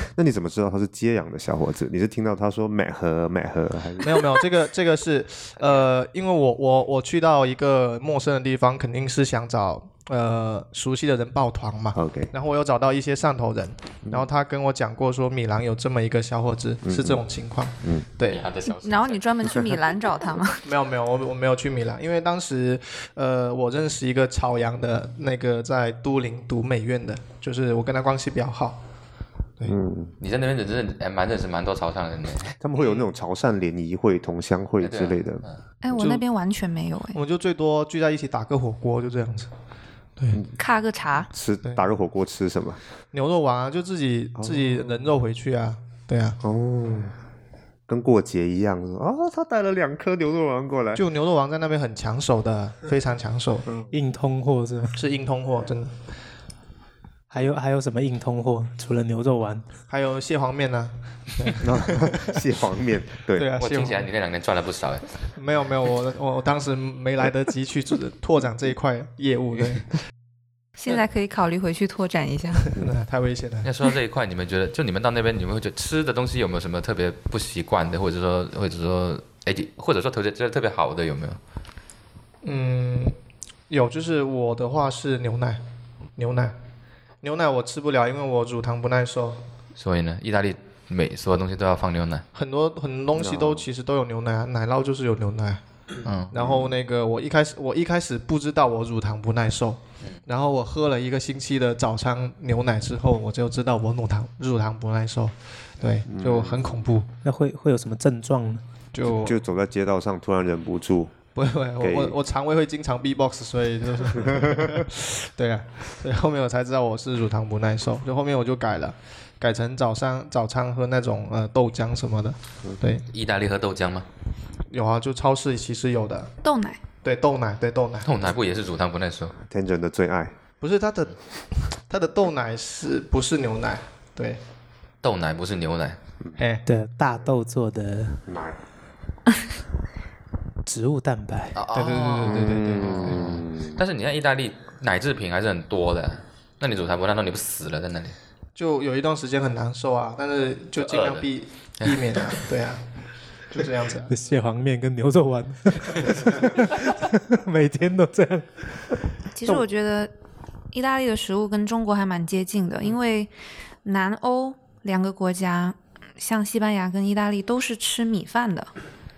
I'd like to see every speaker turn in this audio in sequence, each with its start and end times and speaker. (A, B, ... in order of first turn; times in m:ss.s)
0:00.2-0:04.4 A
0:04.0-0:18.4 B
0:11.9-0:12.3 A
0:16.8-0:17.2 A
0:18.2-0:19.2 C
0:18.7-0:20.6 D
0:20.6-0:28.8 B
0:29.7-0:30.1 A
0:30.2-0:32.5 C
0:32.6-0:35.4 A
0:34.8-0:35.6 C
0:35.8-0:37.2 D
0:35.9-0:36.2 B
0:37.1-0:39.5 B
0:40.2-0:40.4 B
0:40.6-0:41.3 D
0:41.3-0:42.8 A
0:43.1-0:46.4 B
0:44.4-0:45.1 A
0:46.4-0:47.1 A
0:47.9-0:51.0 A
0:50.9-0:53.7 B
0:53.9-0:55.0 E
0:54.9-0:55.9 B
0:57.3-0:59.6 E
0:59.9-1:02.4 B
1:01.6-1:03.5 A
1:03.3-1:04.0 B
1:03.6-1:05.1 C
1:05.4-1:09.9 B
1:10.8-1:12.7 D
1:12.7-1:13.7 B
1:13.6-1:21.4 C
1:22.4-1:23.2 B
1:23.7-1:25.6 B
1:26.2-1:26.5 B
1:27.2-1:29.4 B
1:29.8-1:32.2 C
1:32.3-1:35.6 B
1:33.1-1:33.6 A
1:36.0-1:36.3 C
1:36.3-1:47.1 B
1:36.4-1:36.7 A
1:46.1-1:46.7 A
1:47.2-1:48.6 E
1:48.9-1:49.4 B
1:49.0-1:51.1 A
1:51.3-2:03.0 B
1:51.8-1:52.2 A
1:54.2-1:54.8 A
2:03.1-2:04.0 C
2:04.7-2:06.3 B
2:06.4-2:06.8 D
2:07.0-2:08.1 B
2:08.0-2:09.3 C
2:09.5-2:10.4 A
2:10.6-2:11.2 B
2:11.7-2:14.4 B
2:15.0-2:16.0 C
2:16.4-2:16.6 B
2:16.6-2:18.2 E
2:18.2-2:18.6 A
2:20.6-2:21.6 E
2:21.5-2:28.2 C
2:21.7-2:23.2 B
2:22.2-2:23.8 A
2:28.6-2:32.8 B
2:30.8-2:31.3 C
2:31.8-2:32.2 C
2:33.5-2:34.1 B
2:34.1-2:38.5 E
2:39.3-2:40.1 D
2:40.7-2:43.3 D
2:43.8-2:48.7 D